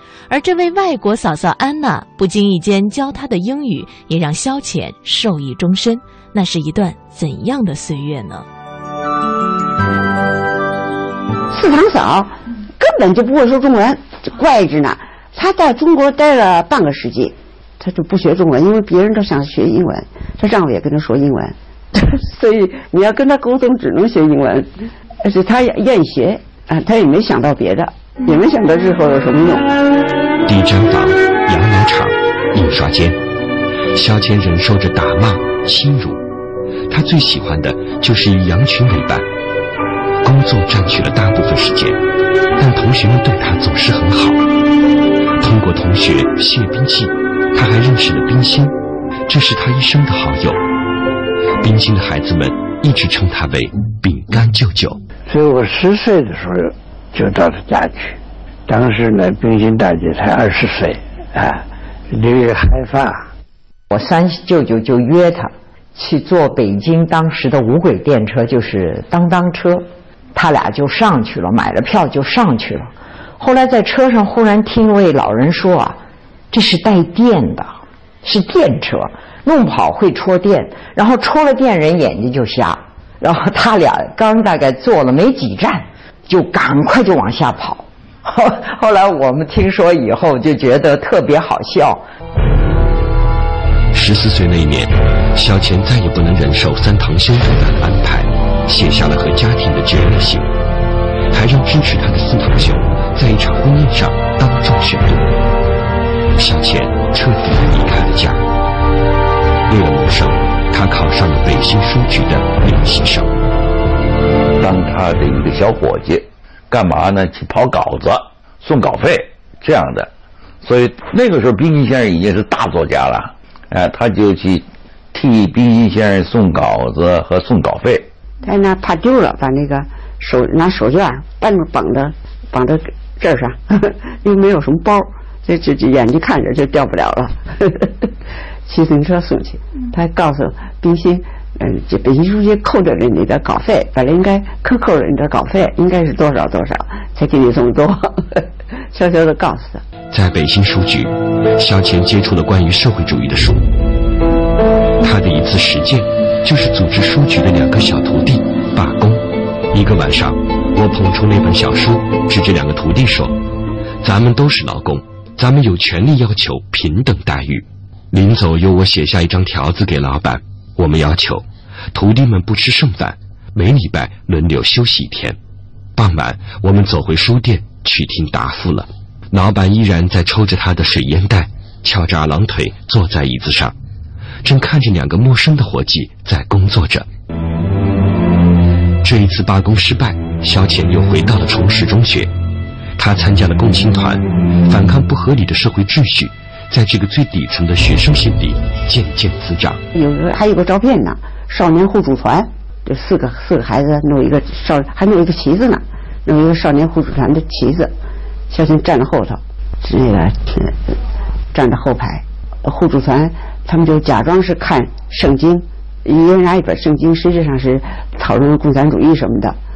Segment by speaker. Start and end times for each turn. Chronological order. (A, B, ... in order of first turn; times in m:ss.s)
0:00.3-0:08.5 A
0:11.5-0:24.7 B
0:25.2-0:29.7 B
0:30.5-0:33.2 C
0:33.9-0:36.2 C
0:36.9-0:39.3 C
0:40.2-0:42.0 C
0:42.6-0:44.4 C
0:45.4-0:48.8 C
0:49.3-0:50.6 C
0:51.6-0:55.0 C
0:55.3-0:58.2 D
0:58.7-1:01.6 D
1:02.1-1:03.3 D
1:03.9-1:16.0 E
1:16.5-1:32.0 E
1:33.9-1:40.5 C
1:41.3-1:45.4 C
1:46.4-1:48.5 C
1:49.7-1:53.3 C
1:54.6-2:00.1 F
2:00.6-2:08.1 F
2:08.4-2:18.1 B
2:18.7-2:29.8 B
2:30.1-2:33.7 C
2:35.0-2:43.4 C
2:44.0-2:55.4 C
2:56.0-3:03.8 C
3:04.4-3:07.1 C
3:09.0-3:12.3 C
3:13.0-3:19.8 C
3:19.9-3:27.9 B
3:28.5-3:30.9 B
3:31.5-3:39.6 B